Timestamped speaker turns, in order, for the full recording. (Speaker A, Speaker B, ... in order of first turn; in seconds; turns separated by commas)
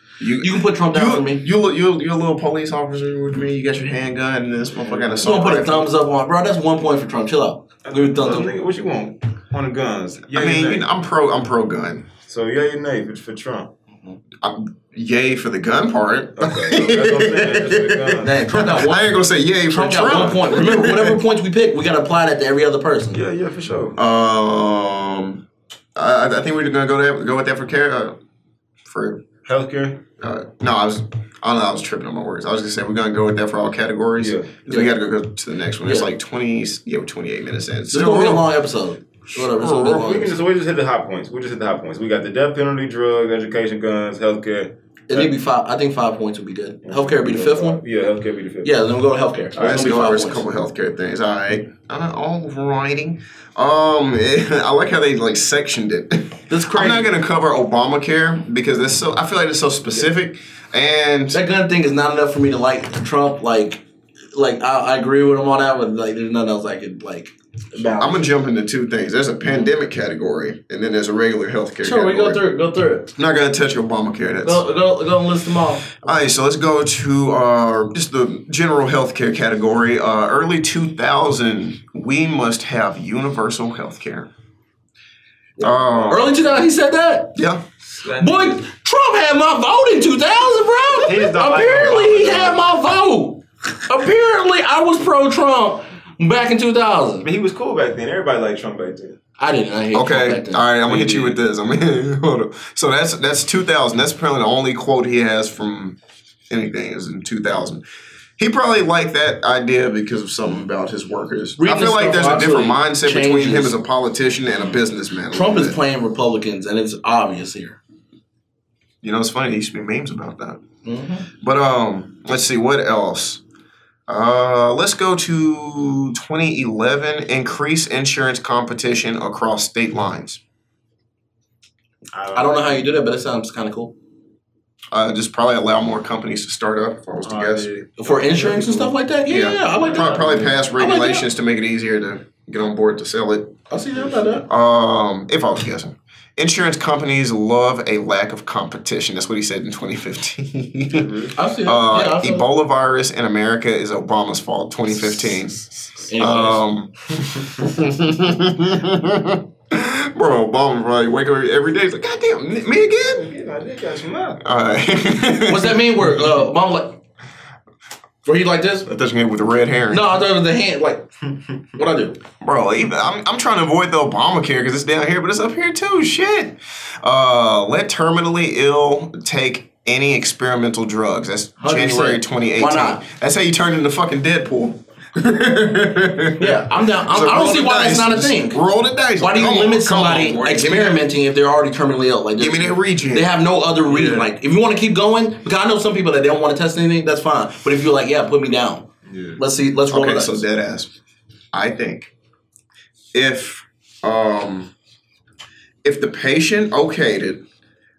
Speaker A: 0.2-5.9, Speaker B: 0.4-1.5, Speaker C: 4.7-5.4, Speaker B: 5.2-8.5, Speaker C: 7.8-10.8, Speaker A: 10.3-12.1, Speaker C: 12.3-13.7, Speaker A: 14.4-21.2, Speaker C: 16.4-18.9, Speaker B: 18.2-23.2, Speaker C: 20.1-20.4, Speaker C: 23.1-24.0, Speaker A: 24.0-25.4, Speaker A: 25.9-28.2, Speaker A: 28.9-29.2, Speaker C: 29.4-30.0, Speaker A: 30.2-38.5, Speaker C: 34.2-34.5, Speaker B: 34.7-34.9, Speaker B: 35.8-36.1, Speaker B: 37.9-40.4, Speaker A: 39.3-40.0, Speaker C: 39.8-45.3, Speaker B: 45.1-47.8, Speaker C: 46.8-48.7, Speaker B: 48.6-50.5, Speaker A: 49.6-61.4, Speaker B: 56.5-57.1, Speaker B: 61.3-68.2, Speaker A: 67.8-72.4, Speaker B: 71.8-73.1, Speaker A: 73.2-74.6, Speaker B: 74.4-76.0, Speaker A: 76.0-84.3, Speaker B: 85.6-87.4, Speaker A: 85.6-86.3, Speaker A: 87.4-87.6, Speaker C: 87.9-88.6, Speaker B: 88.2-97.3, Speaker C: 90.9-92.7, Speaker C: 97.2-99.2, Speaker B: 99.4-100.7, Speaker A: 99.9-106.0, Speaker C: 100.8-101.4, Speaker A: 106.5-107.8, Speaker A: 108.4-115.8, Speaker B: 111.6-113.8, Speaker B: 115.3-117.8, Speaker A: 119.0-120.6, Speaker B: 120.8-121.3, Speaker A: 121.4-123.4, Speaker A: 124.1-130.4, Speaker C: 132.1-132.8, Speaker B: 132.3-133.9, Speaker A: 134.9-137.7, Speaker C: 137.2-138.9, Speaker B: 138.0-141.3, Speaker A: 139.3-143.6, Speaker C: 139.8-140.6, Speaker B: 143.7-144.5, Speaker A: 144.5-151.1, Speaker C: 150.9-151.3, Speaker B: 151.4-152.5, Speaker A: 151.7-163.3, Speaker B: 156.1-156.6, Speaker C: 162.9-164.4, Speaker A: 164.4-165.8, Speaker B: 165.5-167.0, Speaker B: 168.2-168.9, Speaker A: 168.9-170.1, Speaker B: 169.9-172.2, Speaker A: 172.4-191.0, Speaker B: 181.6-183.1, Speaker B: 186.4-188.6, Speaker B: 189.2-200.4, Speaker A: 192.4-193.3, Speaker C: 193.9-194.3, Speaker C: 199.1-199.4, Speaker A: 199.9-200.9, Speaker A: 201.5-202.1, Speaker A: 203.1-204.7, Speaker A: 205.8-207.4